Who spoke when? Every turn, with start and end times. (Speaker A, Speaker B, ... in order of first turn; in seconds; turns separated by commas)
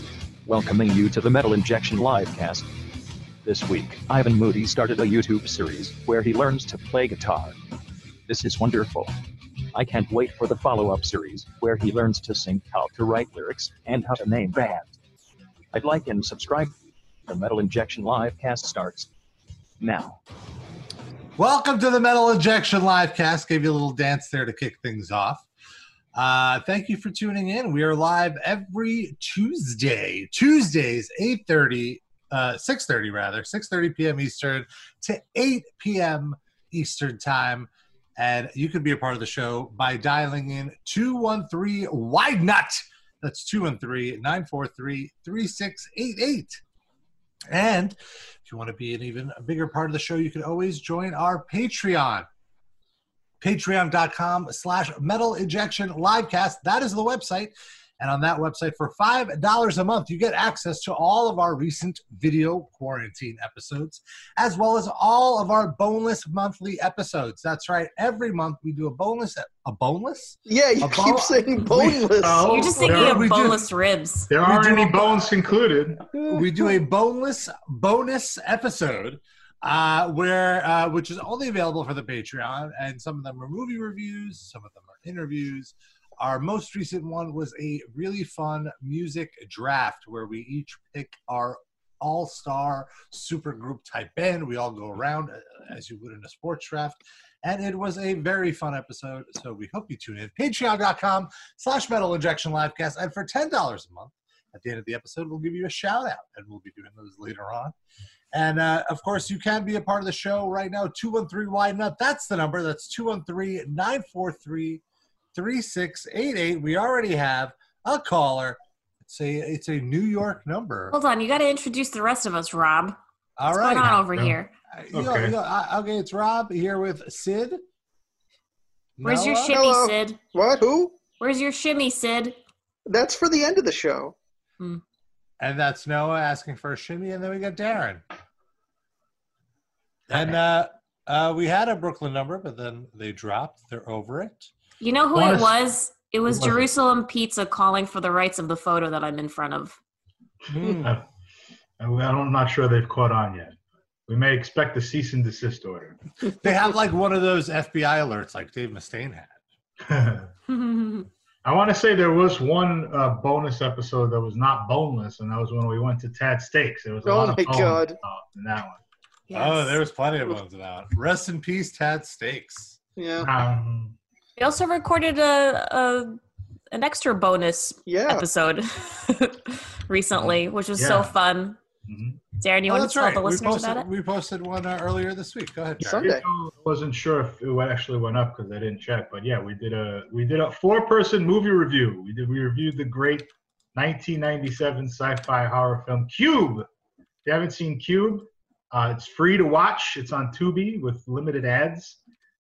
Speaker A: 0.5-2.7, Speaker A: 3.4-7.6, Speaker A: 8.3-9.1, Speaker A: 9.7-15.0, Speaker A: 15.7-16.8, Speaker A: 17.3-19.1, Speaker A: 19.8-20.2, Speaker B: 21.4-25.5, Speaker B: 26.1-46.6, Speaker B: 47.5-52.3, Speaker B: 53.4-72.2, Speaker C: 70.5-72.6, Speaker D: 72.2-73.3, Speaker E: 72.5-74.3, Speaker B: 72.8-73.7, Speaker D: 74.3-76.0, Speaker B: 74.4-75.3, Speaker C: 76.1-76.5, Speaker B: 76.3-107.7, Speaker B: 108.3-114.8, Speaker B: 115.3-121.0, Speaker E: 120.9-123.0, Speaker B: 123.4-124.1, Speaker E: 123.5-124.5, Speaker B: 124.7-127.6, Speaker D: 124.9-125.3, Speaker B: 129.0-129.5, Speaker E: 129.0-130.2, Speaker C: 129.5-131.0, Speaker E: 131.2-132.4, Speaker C: 132.9-134.2, Speaker B: 135.4-138.0, Speaker B: 140.1-144.5, Speaker E: 144.8-149.8, Speaker D: 145.1-145.6, Speaker D: 146.3-146.7, Speaker B: 150.5-151.0, Speaker D: 150.8-151.0, Speaker D: 151.8-153.6, Speaker D: 154.1-156.0, Speaker B: 156.4-159.3, Speaker D: 159.8-160.3, Speaker E: 160.5-161.1, Speaker D: 161.4-168.8, Speaker C: 167.0-168.0, Speaker E: 169.3-169.8, Speaker B: 169.3-172.8, Speaker C: 173.0-173.3, Speaker D: 173.2-174.0, Speaker E: 174.4-176.2, Speaker E: 176.7-181.6, Speaker C: 177.9-178.2, Speaker D: 180.2-181.1, Speaker D: 181.9-182.2, Speaker E: 182.4-183.9, Speaker B: 182.7-186.1, Speaker C: 185.8-186.2, Speaker D: 186.0-196.7, Speaker D: 197.2-202.0